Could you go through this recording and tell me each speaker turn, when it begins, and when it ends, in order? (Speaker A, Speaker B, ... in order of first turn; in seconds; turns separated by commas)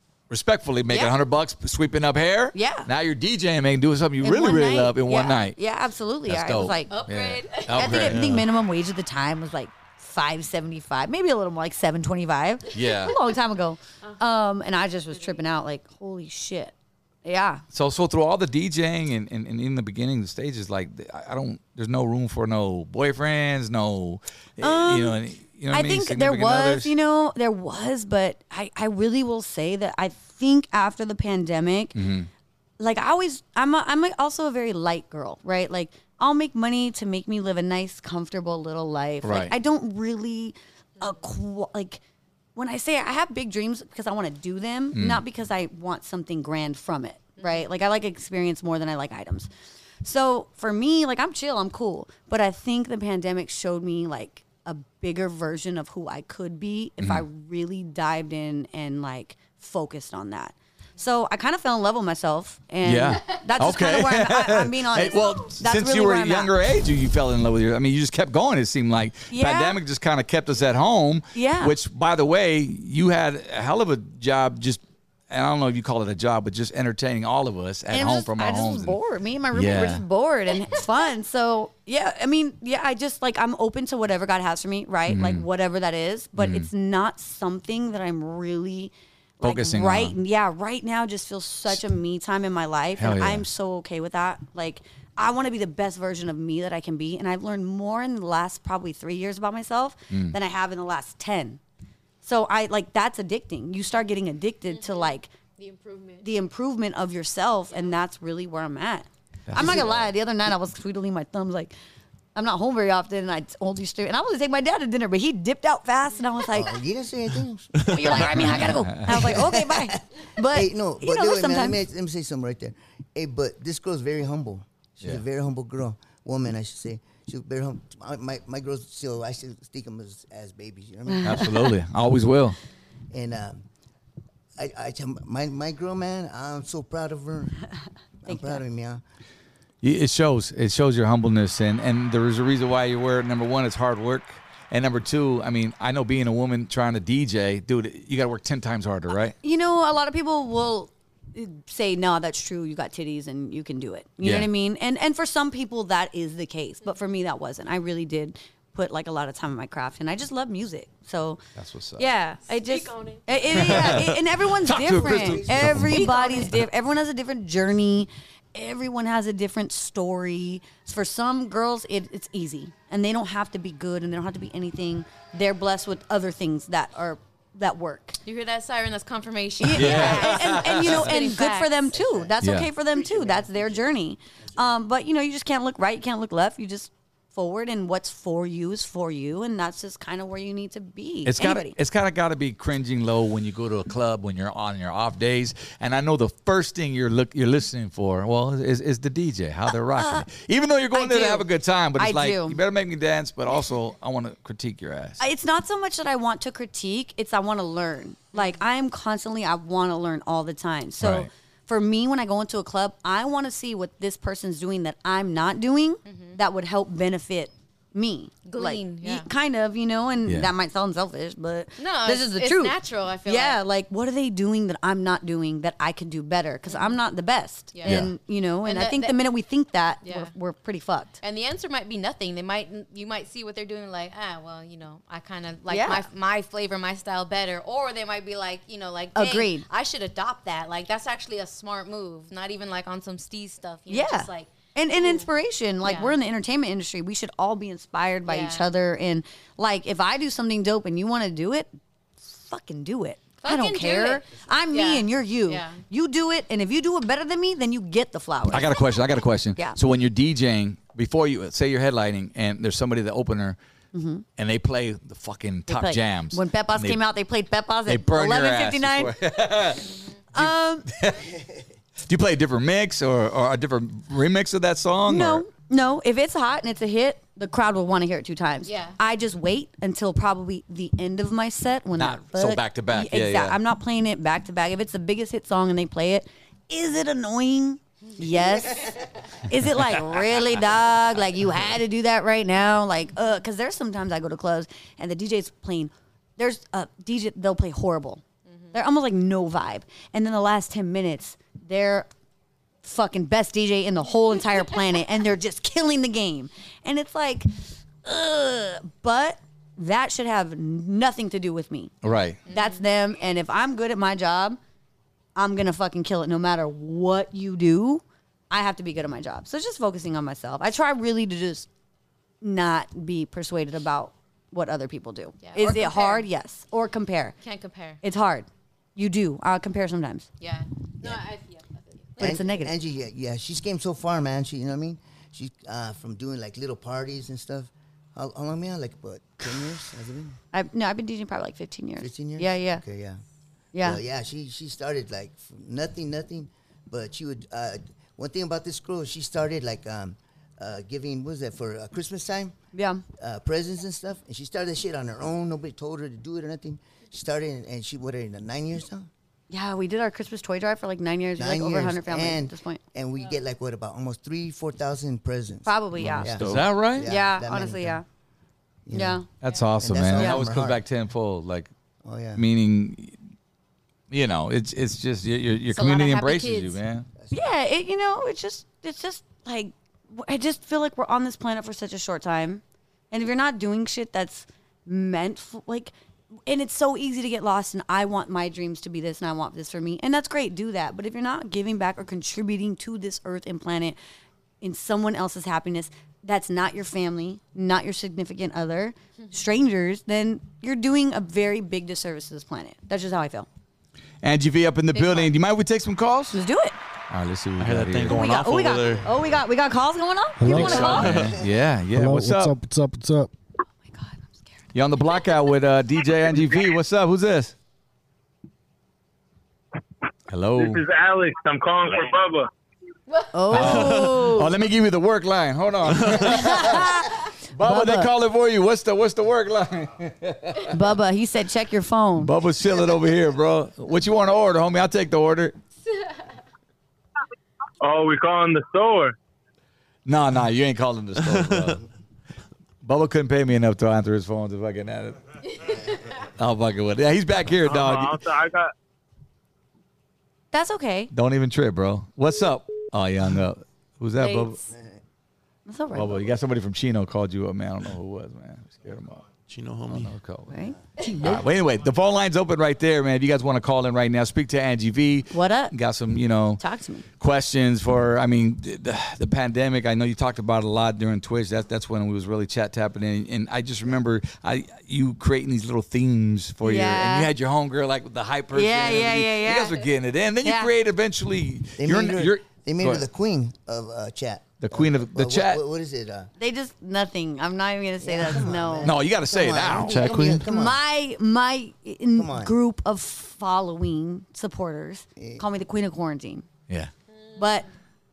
Speaker A: 0.3-5.6, Speaker B: 0.9-1.1, Speaker B: 2.5-2.9, Speaker B: 4.2-7.1, Speaker A: 6.3-8.5, Speaker C: 6.9-8.1, Speaker B: 7.7-17.6, Speaker D: 7.9-8.3, Speaker A: 12.7-13.2, Speaker A: 17.7-26.9, Speaker B: 24.6-25.2, Speaker B: 25.7-32.0, Speaker A: 31.9-32.3, Speaker B: 32.8-42.0, Speaker A: 39.2-39.5, Speaker B: 42.5-49.5, Speaker A: 44.9-45.2, Speaker C: 47.4-47.6, Speaker B: 50.0-66.5, Speaker A: 62.8-79.0, Speaker B: 69.3-69.8, Speaker B: 71.3-71.7, Speaker B: 77.9-101.6, Speaker A: 79.5-80.0, Speaker A: 85.1-85.5, Speaker A: 86.4-86.7, Speaker A: 89.4-90.2, Speaker A: 93.0-93.4, Speaker A: 100.1-100.3, Speaker B: 102.2-105.3, Speaker C: 104.7-106.3, Speaker B: 106.2-111.7, Speaker A: 109.5-110.0, Speaker E: 109.6-110.0, Speaker B: 112.3-116.8, Speaker E: 116.5-131.6, Speaker B: 117.8-121.8, Speaker A: 118.3-119.4, Speaker B: 131.1-131.7, Speaker A: 131.2-132.6, Speaker E: 133.1-133.6, Speaker E: 134.6-137.6, Speaker E: 138.2-139.0, Speaker B: 138.3-138.6, Speaker A: 139.8-149.3, Speaker B: 149.4-161.4, Speaker A: 154.2-154.5, Speaker A: 161.6-162.1, Speaker B: 162.0-178.2, Speaker C: 162.6-163.8, Speaker A: 163.5-166.1, Speaker E: 164.8-165.8, Speaker C: 165.9-166.5, Speaker C: 178.2-181.8, Speaker B: 179.6-191.8, Speaker A: 179.7-181.1, Speaker E: 181.9-183.9, Speaker A: 182.4-182.7, Speaker A: 191.2-205.2, Speaker B: 199.9-200.3, Speaker B: 200.9-202.6, Speaker B: 205.2-231.2, Speaker A: 211.0-211.3, Speaker C: 216.1-216.4, Speaker C: 218.4-219.3, Speaker A: 220.2-220.5, Speaker C: 221.8-223.6, Speaker C: 226.7-227.0, Speaker C: 227.7-228.0, Speaker A: 227.8-228.1, Speaker C: 228.6-229.2, Speaker C: 230.0-230.3, Speaker C: 231.2-245.3, Speaker B: 235.7-236.1, Speaker B: 239.1-239.6, Speaker B: 243.9-258.7, Speaker C: 245.8-246.1, Speaker C: 248.2-248.6, Speaker C: 253.4-255.8, Speaker A: 258.5-263.6, Speaker B: 263.9-264.2, Speaker A: 264.4-267.0, Speaker B: 265.7-269.1, Speaker A: 267.9-271.3, Speaker B: 270.3-270.9, Speaker A: 272.0-275.4, Speaker B: 275.1-298.2, Speaker C: 278.6-279.0, Speaker A: 282.0-283.6, Speaker B: 298.7-302.1, Speaker B: 302.8-307.5, Speaker B: 308.0-314.6, Speaker A: 312.0-312.4, Speaker C: 312.5-312.8, Speaker B: 315.4-321.7, Speaker B: 322.4-327.4, Speaker C: 325.4-326.2, Speaker C: 327.4-328.0, Speaker B: 328.0-330.2, Speaker C: 330.4-332.4, Speaker B: 332.2-332.7, Speaker E: 332.2-340.4, Speaker B: 340.5-342.8, Speaker E: 342.0-343.2, Speaker B: 343.7-344.0, Speaker E: 343.8-352.5, Speaker B: 352.7-353.0, Speaker E: 353.2-359.1, Speaker B: 359.5-362.8, Speaker E: 361.4-365.7, Speaker B: 365.6-366.3, Speaker E: 366.2-368.0, Speaker A: 366.3-367.1, Speaker B: 367.0-368.0, Speaker E: 368.9-369.2, Speaker B: 368.9-369.2, Speaker A: 369.4-371.7, Speaker E: 369.8-370.8, Speaker B: 370.1-370.4, Speaker E: 372.0-372.4, Speaker A: 372.4-373.1, Speaker A: 374.1-377.1, Speaker C: 375.7-376.8, Speaker E: 377.2-377.5, Speaker B: 377.3-385.9, Speaker B: 386.4-394.0, Speaker B: 394.6-403.5, Speaker A: 404.2-406.4, Speaker B: 406.3-406.8, Speaker A: 407.1-408.2, Speaker D: 407.6-409.1, Speaker B: 408.1-411.2, Speaker F: 410.4-411.2, Speaker A: 410.4-412.5, Speaker D: 410.9-411.4, Speaker F: 411.9-413.3, Speaker B: 413.9-414.4, Speaker A: 414.7-417.5, Speaker A: 420.3-420.8, Speaker G: 420.6-422.5, Speaker C: 423.1-423.3, Speaker B: 423.3-424.5, Speaker A: 423.5-430.8, Speaker D: 423.6-424.1, Speaker B: 426.2-428.1, Speaker B: 430.7-432.3, Speaker A: 432.2-435.6, Speaker G: 437.8-439.1, Speaker A: 440.1-441.9, Speaker A: 442.8-445.8, Speaker A: 446.3-448.2, Speaker G: 447.6-448.7, Speaker B: 450.5-451.1, Speaker A: 451.1-454.6, Speaker C: 454.2-454.7, Speaker B: 455.7-456.2, Speaker A: 455.9-459.3, Speaker D: 459.5-460.1, Speaker A: 459.9-460.5, Speaker B: 460.5-461.4, Speaker A: 461.2-466.6, Speaker B: 465.3-465.7, Speaker B: 466.6-467.0, Speaker A: 467.2-483.0, Speaker B: 476.6-477.3, Speaker B: 478.5-479.8, Speaker B: 480.4-480.7, Speaker E: 481.8-486.3, Speaker A: 484.6-485.6, Speaker B: 486.4-488.9, Speaker E: 488.0-490.8, Speaker A: 488.8-490.4, Speaker D: 489.9-490.4, Speaker B: 490.4-496.4, Speaker E: 492.1-492.5, Speaker E: 495.2-495.4, Speaker B: 497.4-497.7